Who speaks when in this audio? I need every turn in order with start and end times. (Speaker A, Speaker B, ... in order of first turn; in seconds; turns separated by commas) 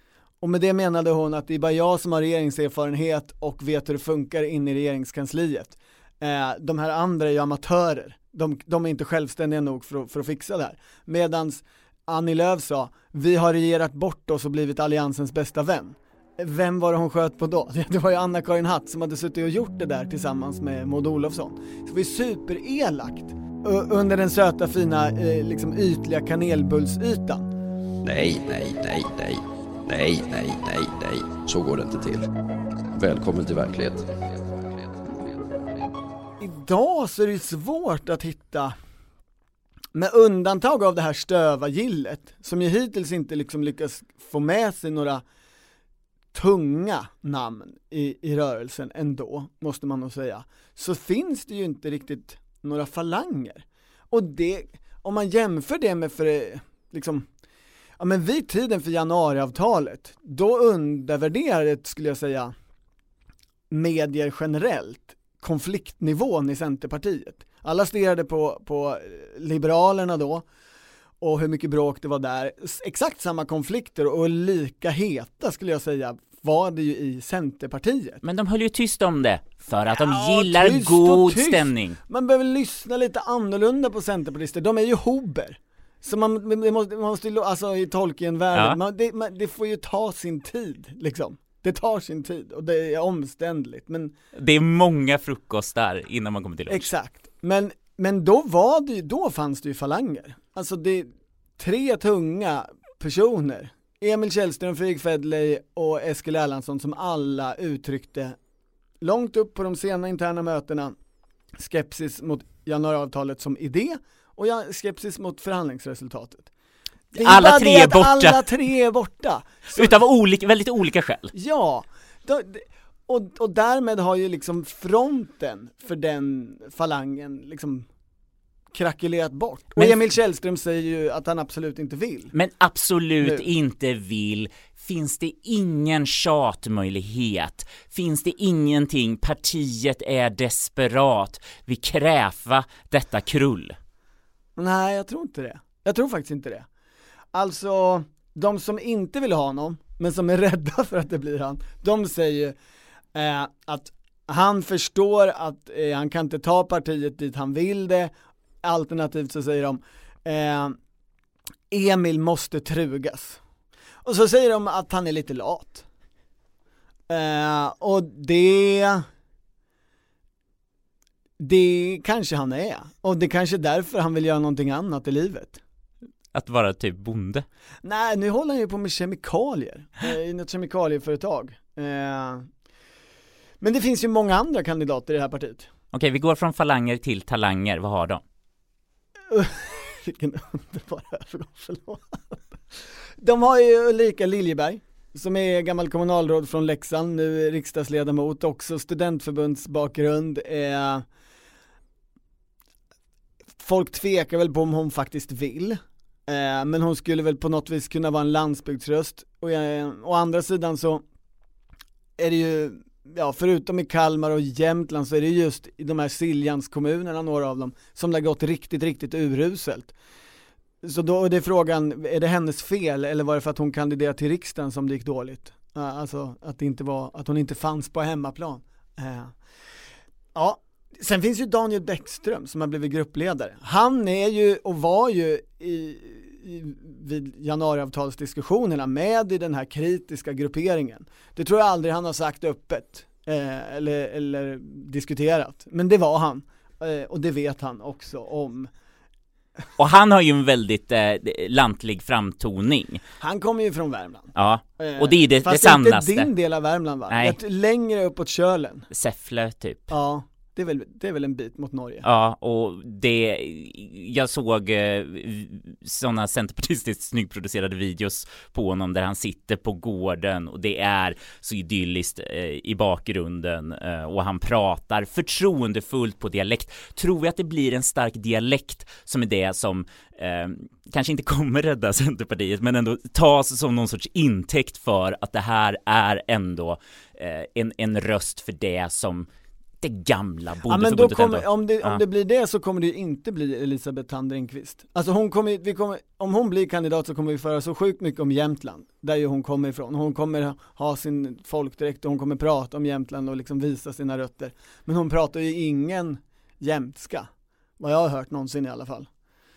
Speaker A: 0.4-27.5, Speaker B: 28.0-32.3, Speaker B: 33.0-35.9, Speaker A: 36.4-38.8, Speaker A: 40.0-45.2, Speaker A: 46.3-57.2, Speaker A: 58.0-62.5, Speaker A: 63.7-70.5, Speaker A: 71.2-78.2, Speaker C: 78.2-82.0, Speaker A: 80.0-94.1, Speaker C: 94.4-96.9, Speaker A: 96.7-108.3, Speaker A: 109.0-111.0, Speaker A: 111.6-116.5, Speaker A: 117.1-120.0, Speaker C: 117.2-118.4, Speaker C: 119.8-121.3, Speaker A: 121.3-127.9, Speaker A: 128.7-132.3, Speaker C: 129.8-130.0, Speaker C: 132.3-143.8, Speaker A: 144.6-146.7, Speaker A: 147.3-152.5, Speaker A: 153.1-158.1, Speaker A: 158.6-160.8, Speaker A: 161.7-163.4, Speaker A: 164.0-165.8, Speaker A: 167.1-169.1, Speaker A: 171.4-175.6, Speaker C: 176.3-177.5, Speaker A: 177.8-182.5, Speaker A: 183.6-185.7, Speaker C: 185.9-188.2, Speaker A: 189.3-192.4, Speaker A: 193.2-201.0, Speaker A: 203.6-211.0, Speaker A: 212.2-219.9, Speaker A: 220.8-229.3, Speaker A: 230.3-248.7, Speaker C: 249.8-253.0, Speaker A: 253.2-258.9, Speaker C: 254.3-256.3, Speaker C: 257.1-257.4, Speaker C: 258.9-259.9, Speaker A: 259.9-262.0, Speaker C: 262.0-289.3, Speaker C: 289.8-292.0, Speaker A: 290.7-309.1